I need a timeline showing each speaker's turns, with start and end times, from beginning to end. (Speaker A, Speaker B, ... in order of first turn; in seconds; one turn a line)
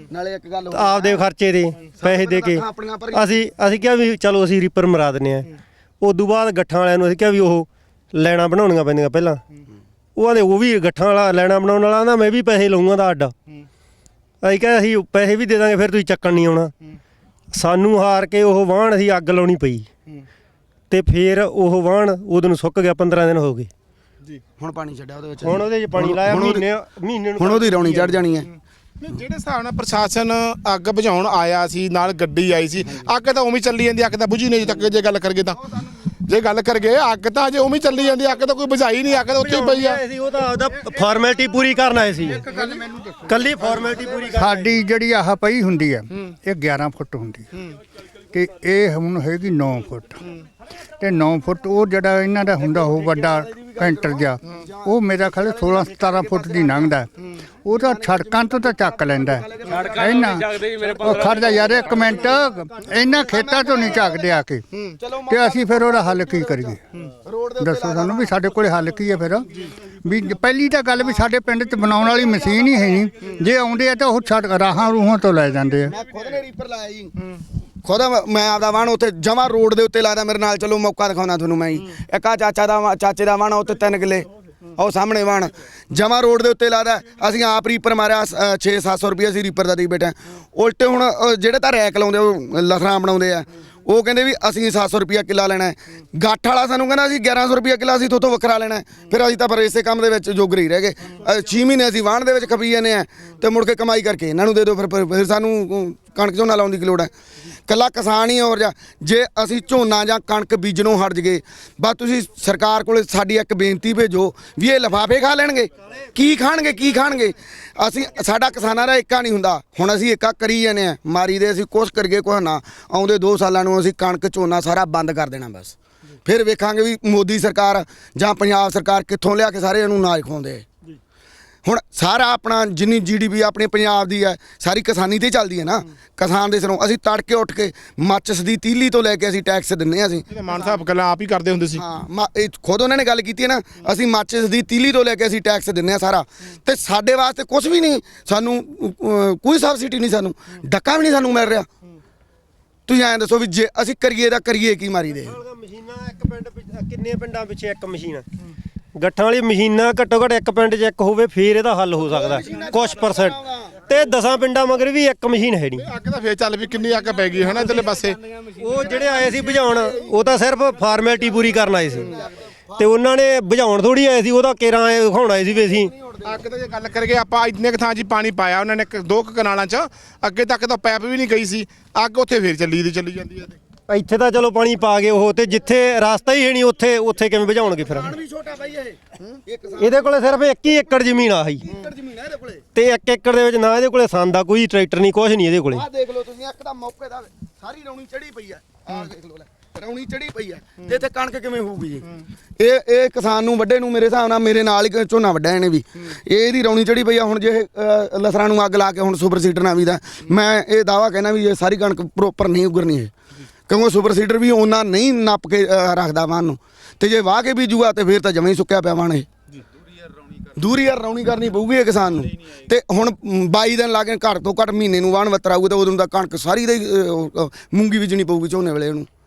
Speaker A: 0.1-1.3
Speaker B: 0.7-5.5
Speaker A: 2.0-3.4
Speaker B: 6.0-9.4
Speaker B: 10.2-13.3
Speaker B: 14.4-16.7
Speaker B: 17.5-19.9
Speaker B: 20.9-23.7
Speaker A: 24.6-26.6
Speaker B: 25.4-28.2
Speaker A: 27.4-28.5
Speaker C: 29.0-35.6
Speaker C: 36.3-40.0
Speaker B: 39.3-42.5
Speaker D: 42.4-43.2
Speaker B: 43.3-44.8
Speaker D: 44.4-47.5
Speaker D: 48.3-50.2
Speaker D: 51.0-57.1
Speaker A: 52.9-54.6
Speaker A: 55.6-56.9
Speaker D: 57.6-64.7
Speaker A: 57.7-60.3
Speaker A: 61.2-62.2
Speaker A: 63.1-64.3
Speaker A: 65.0-68.4
Speaker D: 65.3-66.8
Speaker D: 67.6-69.5
Speaker D: 70.0-75.9
Speaker A: 75.9-77.2
Speaker A: 77.8-107.1
Speaker A: 107.7-130.7
Speaker A: 131.7-140.6
Speaker C: 140.3-141.8
Speaker A: 141.8-151.7
Speaker A: 152.9-155.4
Speaker B: 155.2-158.2
Speaker B: 158.9-165.9
Speaker A: 162.1-163.4
Speaker C: 165.8-168.2
Speaker B: 168.6-172.2
Speaker B: 172.8-175.9
Speaker C: 176.3-183.6
Speaker B: 183.9-188.1
Speaker A: 187.8-190.1
Speaker B: 189.8-191.7
Speaker A: 191.6-192.6
Speaker B: 192.7-195.8
Speaker A: 195.7-202.1
Speaker A: 202.6-213.1
Speaker A: 213.7-219.3
Speaker A: 220.6-229.1